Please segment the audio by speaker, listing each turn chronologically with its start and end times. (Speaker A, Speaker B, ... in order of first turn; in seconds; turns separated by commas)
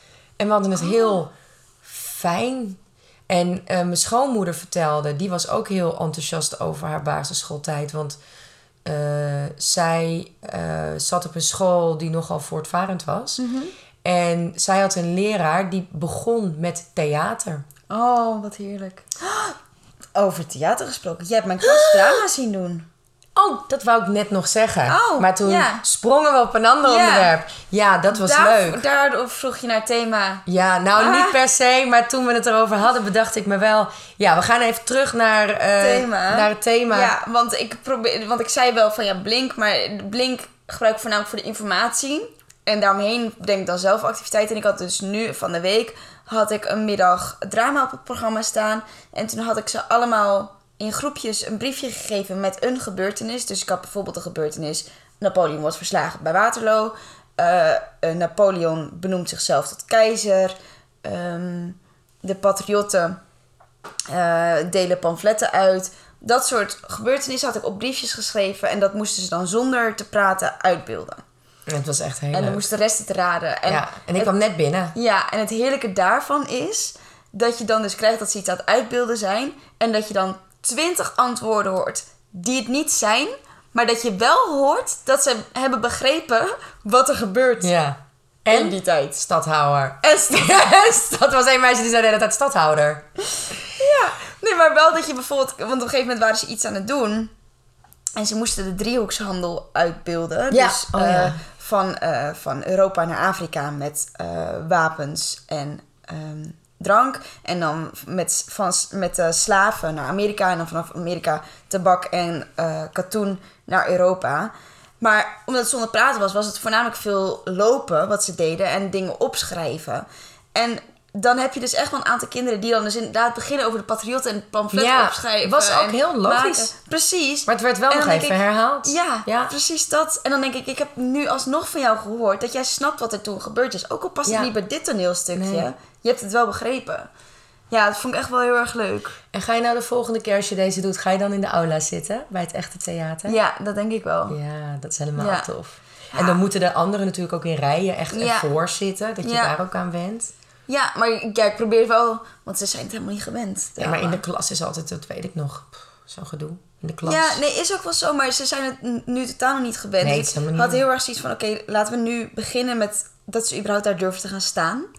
Speaker A: 0.4-1.3, Speaker B: 0.9-1.1, Speaker A: 1.8-8.2, Speaker A: 8.8-13.4, Speaker B: 13.4-13.7, Speaker A: 14.0-17.6, Speaker B: 17.9-19.6, Speaker B: 20.1-22.9, Speaker A: 21.6-22.2, Speaker A: 23.3-28.8, Speaker B: 24.9-25.8, Speaker B: 26.8-27.3, Speaker B: 28.1-31.4, Speaker A: 30.4-37.1, Speaker B: 35.8-63.2, Speaker B: 64.1-71.2, Speaker A: 71.7-72.6, Speaker B: 72.3-74.3, Speaker A: 73.7-74.9, Speaker B: 74.9-87.7, Speaker A: 87.6-93.0, Speaker B: 88.5-89.2, Speaker B: 90.0-90.6, Speaker B: 93.7-97.3, Speaker B: 98.2-137.1, Speaker A: 100.5-101.4, Speaker A: 124.7-126.7, Speaker A: 127.5-129.5, Speaker A: 134.2-134.5, Speaker A: 135.3-135.7, Speaker B: 137.7-139.2, Speaker A: 139.3-143.4, Speaker B: 143.2-144.4, Speaker A: 144.3-150.3, Speaker B: 145.2-145.5, Speaker B: 146.1-146.4, Speaker B: 148.1-148.5, Speaker B: 149.2-149.5, Speaker B: 150.7-154.2, Speaker A: 153.8-157.4, Speaker B: 157.0-164.9, Speaker A: 160.0-160.8